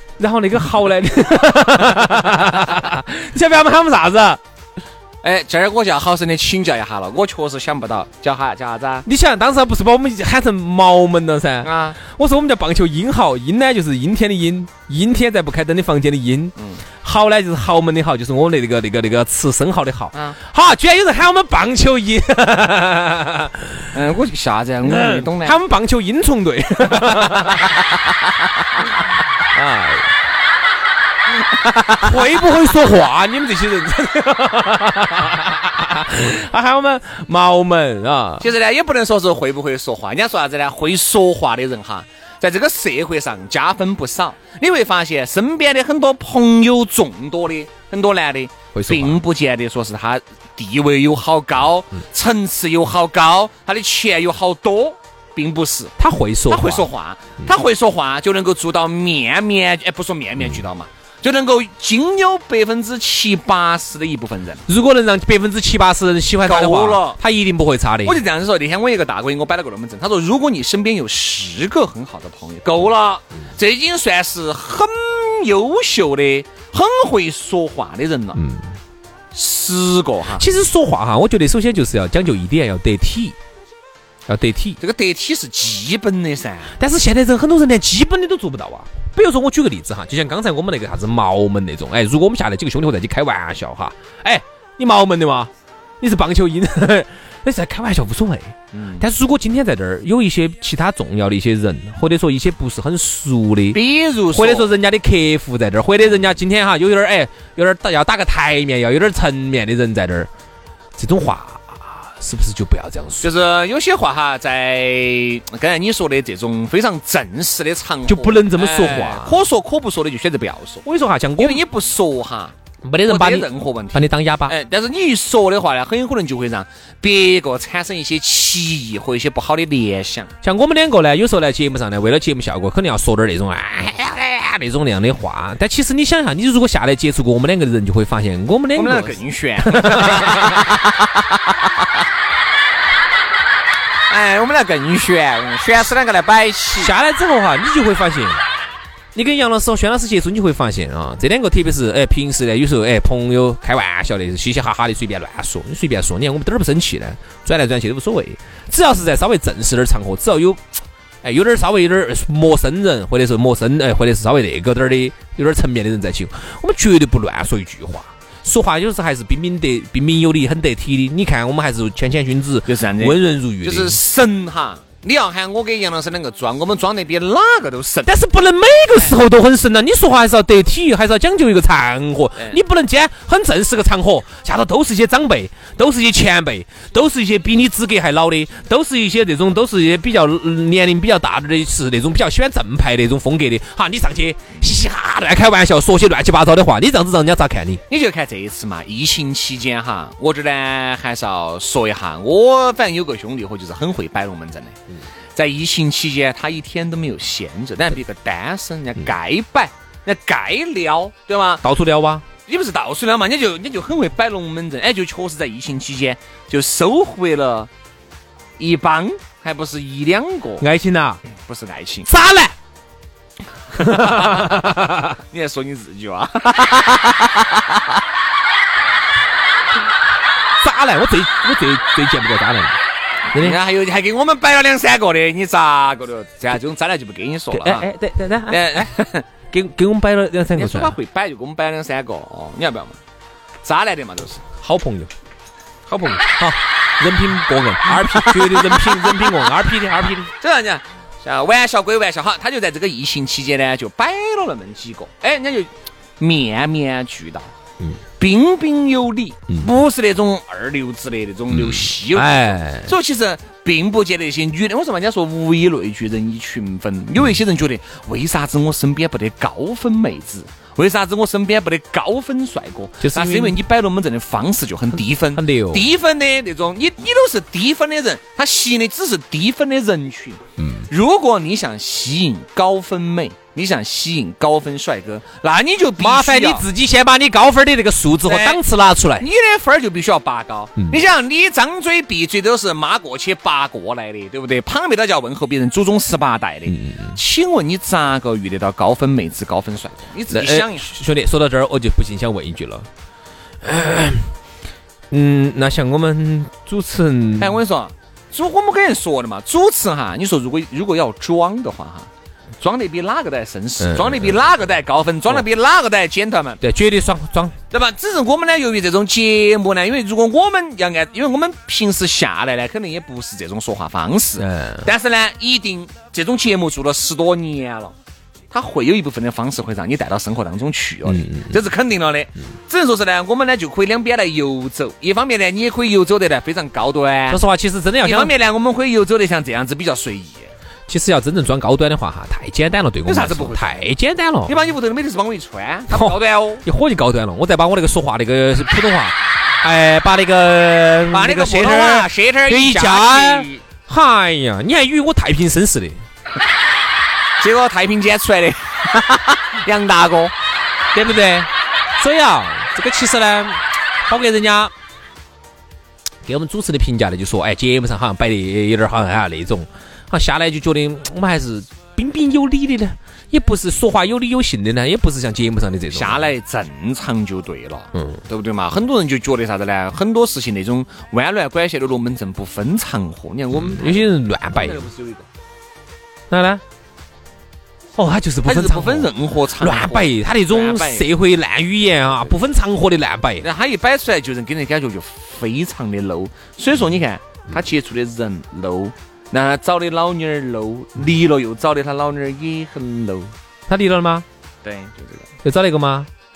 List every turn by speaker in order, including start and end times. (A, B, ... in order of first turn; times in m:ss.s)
0:00.2-0:04.4 A
0:05.2-0:09.1 B
0:09.1-0:23.9 A
0:11.6-0:12.0 B
0:16.6-0:16.8 B
0:20.1-0:20.4 B
0:23.9-0:25.6 B
0:24.8-0:27.6 A
0:27.2-0:27.6 B
0:29.5-0:30.1 A
0:31.7-0:32.3 B
0:32.0-0:38.5 A
0:38.4-0:56.0 B
0:48.7-0:49.2 A
0:56.0-0:56.9 A
0:56.5-1:04.6 B
1:04.7-1:08.2 A
1:06.4-1:07.2 B
1:08.0-1:18.4 B
1:18.4-1:18.8 A
1:19.3-1:20.5 B
1:20.4-1:23.4 A
1:24.3-1:24.8 A
1:24.8-1:26.8 B
1:26.8-1:35.5 A
1:36.0-1:43.8 A
1:38.7-1:39.1 B
1:43.7-1:44.7 B
1:44.3-1:50.3 A
1:51.0-1:53.2 A
1:53.2-2:00.9 B
1:58.1-1:59.4 A
2:00.8-2:01.6 A
2:01.4-2:02.5 B
2:02.8-2:04.5 A
2:03.1-2:10.3 B
2:10.4-2:19.2 A
2:18.7-2:21.2 B
2:19.7-2:20.5 A
2:24.1-2:26.9 B
2:26.8-2:28.4 A
2:29.2-2:54.0 A
2:52.7-2:58.1 B
2:58.0-3:17.8 A
3:02.4-3:02.6 B
3:17.9-3:24.8 B
3:25.4-3:31.6 B
3:31.6-3:32.3 A
3:32.5-3:37.7 B
3:38.6-3:40.7 B
3:40.6-3:41.2 A
3:41.3-3:42.1 B
3:42.1-3:42.5 A
3:43.8-3:45.1 A
3:43.8-3:47.5 B
3:50.6-3:52.8 A
3:53.3-3:57.9 B
3:57.5-3:58.9 A
3:58.5-3:59.2 B
3:59.5-4:01.0 A
4:00.6-4:03.0 B
4:03.6-4:04.4 B
4:04.6-4:05.1 A
4:05.9-4:06.2 B
4:06.4-4:10.3 A
4:07.9-4:09.2 B
4:10.4-4:17.5 B
4:18.2-4:46.7 B
4:21.5-4:22.9 A
4:33.0-4:33.6 A
4:35.4-4:35.9 A
4:40.6-4:40.9 A
4:46.0-4:49.3 A
4:48.3-4:48.6 B
4:49.2-5:00.9 B
4:56.7-4:57.2 A
5:00.3-5:02.9 A
5:03.6-5:04.3 A
5:05.1-5:07.6 A
5:07.4-5:12.1 B
5:12.6-5:16.6 B
5:13.8-5:14.3 A
5:16.6-5:17.6 A
5:17.7-5:27.9 B
5:24.4-5:24.9 A
5:28.5-5:37.4 B
5:31.1-5:31.6 A
5:37.3-5:38.3 A
5:38.0-5:40.5 B
5:40.9-5:44.6 A
5:43.0-5:43.9 B
5:44.4-5:46.6 B
5:45.9-5:56.0 A
5:51.1-5:53.6 B
5:57.4-6:00.3 B
6:00.9-6:04.7 A
6:06.2-6:16.3 A
6:15.9-6:25.3 B
6:17.9-6:18.2 A
6:23.5-6:24.8 A
6:26.3-6:26.6 A
6:28.0-6:33.5 A
6:28.4-6:31.1 B
6:33.4-6:43.3 B
6:43.7-6:44.3 A
6:44.6-6:45.3 B
6:45.4-6:46.1 A